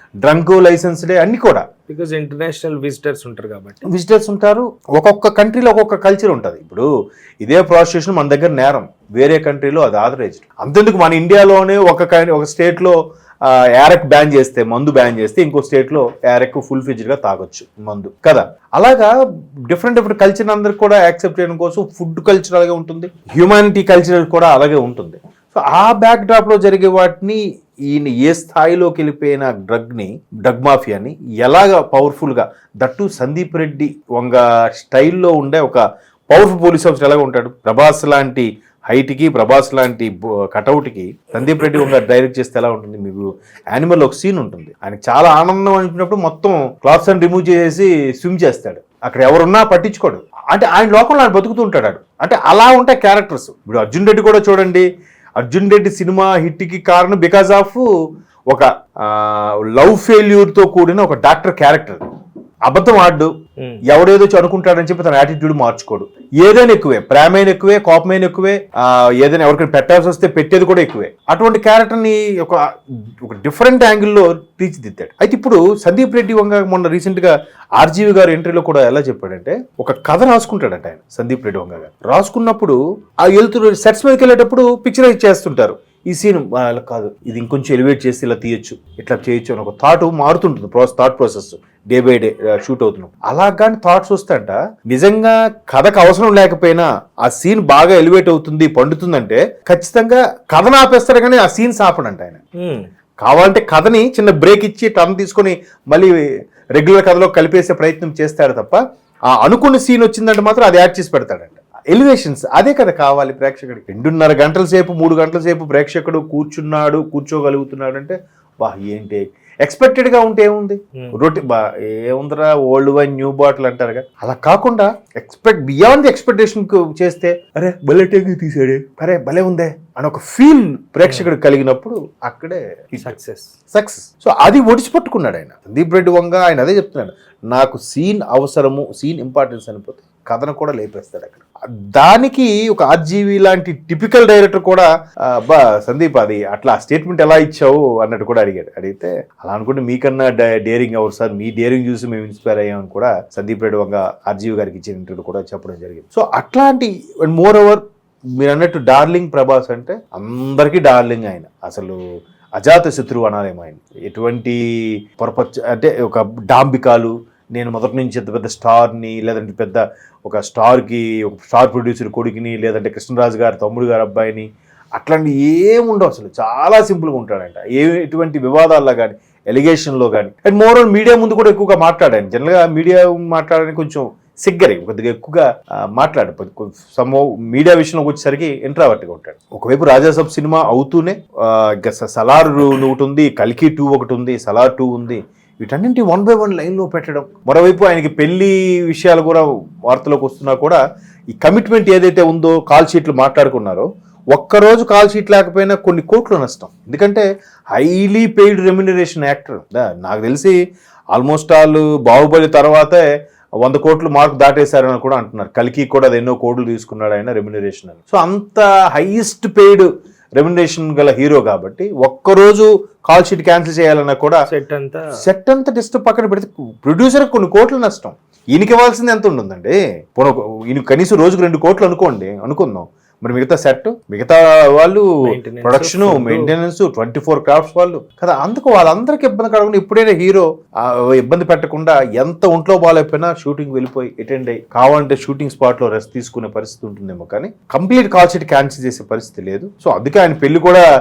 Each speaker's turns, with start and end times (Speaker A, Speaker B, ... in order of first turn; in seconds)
Speaker A: 0.2-1.6, 3.9-6.9, 7.4-12.9, 13.5-19.1, 19.7-27.4, 27.9-54.9, 55.4-57.9, 58.5-62.0, 62.7-63.3, 63.9-72.6, 73.2-102.4, 103.2-106.2, 106.7-133.2, 133.7-157.8, 158.4-162.0, 162.6-164.6, 165.2-200.8, 201.3-210.6, 211.1-213.0, 213.6-219.9, 220.4-224.4, 225.2-235.1, 235.6-250.8
Speaker B: 1.9-3.8, 63.6-63.8, 102.6-102.9, 131.1-131.3, 133.0-133.5, 224.5-225.1, 235.3-236.5